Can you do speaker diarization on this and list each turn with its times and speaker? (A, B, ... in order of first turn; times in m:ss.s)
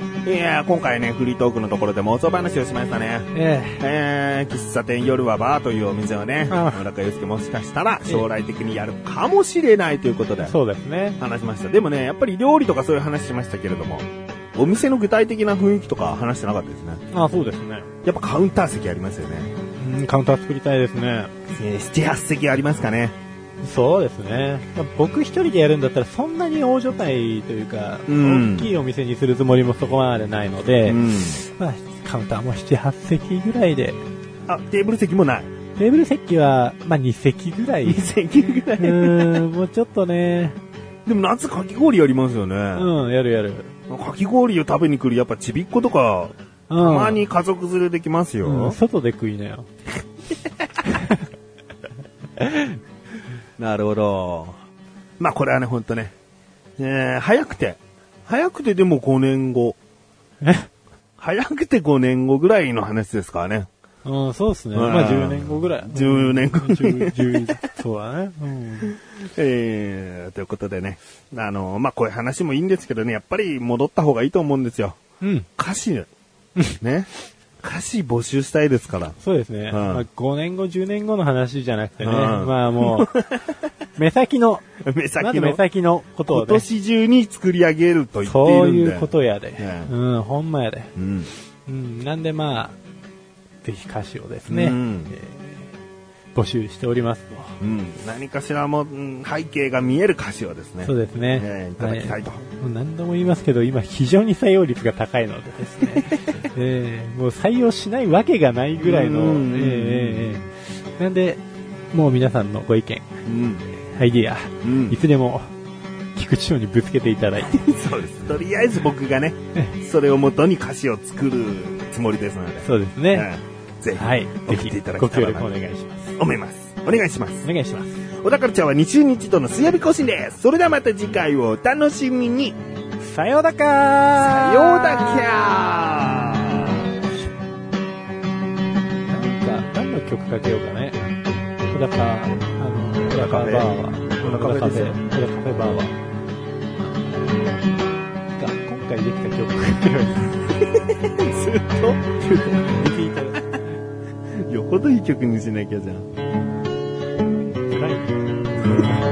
0:00.2-0:10.5 A
0:03.3-0:03.8 B
0:06.5-0:06.8 B
0:10.4-0:11.2 B
0:11.2-0:17.0 A
0:17.1-0:17.9 B
0:18.0-0:19.5 A
0:19.8-0:21.3 B
0:21.5-0:23.1 A
0:23.6-0:34.0 B
0:28.1-0:28.7 A
0:30.8-0:31.4 A
0:34.5-0:35.5 A
0:35.8-0:38.0 B
0:37.8-0:39.4 A
0:38.8-0:40.6 B
0:41.0-0:42.9 A
0:42.7-0:43.7 B
0:43.9-0:48.8 A
0:46.7-0:47.2 B
0:48.4-0:49.7 B
0:50.8-0:51.2 B
0:52.4-0:52.8 B
0:53.6-0:54.6 A
0:55.2-0:56.1 A
0:56.8-0:59.8 A
1:00.4-1:00.7 B
1:01.2-1:03.7 A
1:04.0-1:09.0 B
1:04.7-1:07.6 A
1:08.9-1:15.0 A
1:15.2-1:15.5 B
1:15.6-1:16.1 A
1:16.8-1:17.1 A
1:17.6-1:19.2 A
1:19.2-1:23.1 B
1:19.7-1:20.0 A
1:22.0-1:23.6 A
1:24.0-1:24.7 B
1:24.8-1:25.6 A
1:25.2-1:26.6 B
1:26.3-1:29.9 A
1:28.2-1:30.9 B
1:31.0-1:31.3 A
1:31.7-1:32.8 B
1:33.6-1:35.6 B
1:34.5-1:35.1 A
1:36.3-1:37.6 B
1:37.6-1:42.4 A
1:40.8-1:53.1 B
1:48.8-1:50.4 A
1:53.2-1:53.6 A
1:53.9-1:55.5 B
1:54.6-1:55.0 A
1:56.1-1:57.6 B
1:57.4-2:05.5 A
2:02.6-2:03.3 B
2:03.9-2:06.2 B
2:06.2-2:07.5 A
2:07.4-2:08.0 B
2:08.2-2:12.6 A
2:13.0-2:15.3 B
2:14.1-2:17.0 A
2:19.1-2:21.0 B
2:21.7-2:25.9 B
2:23.1-2:25.0 A
2:28.4-2:30.4 B
2:30.6-2:33.0 A
2:32.7-2:33.5 B
2:34.3-2:36.1 A
2:37.7-2:38.9 B
2:38.7-2:38.9 A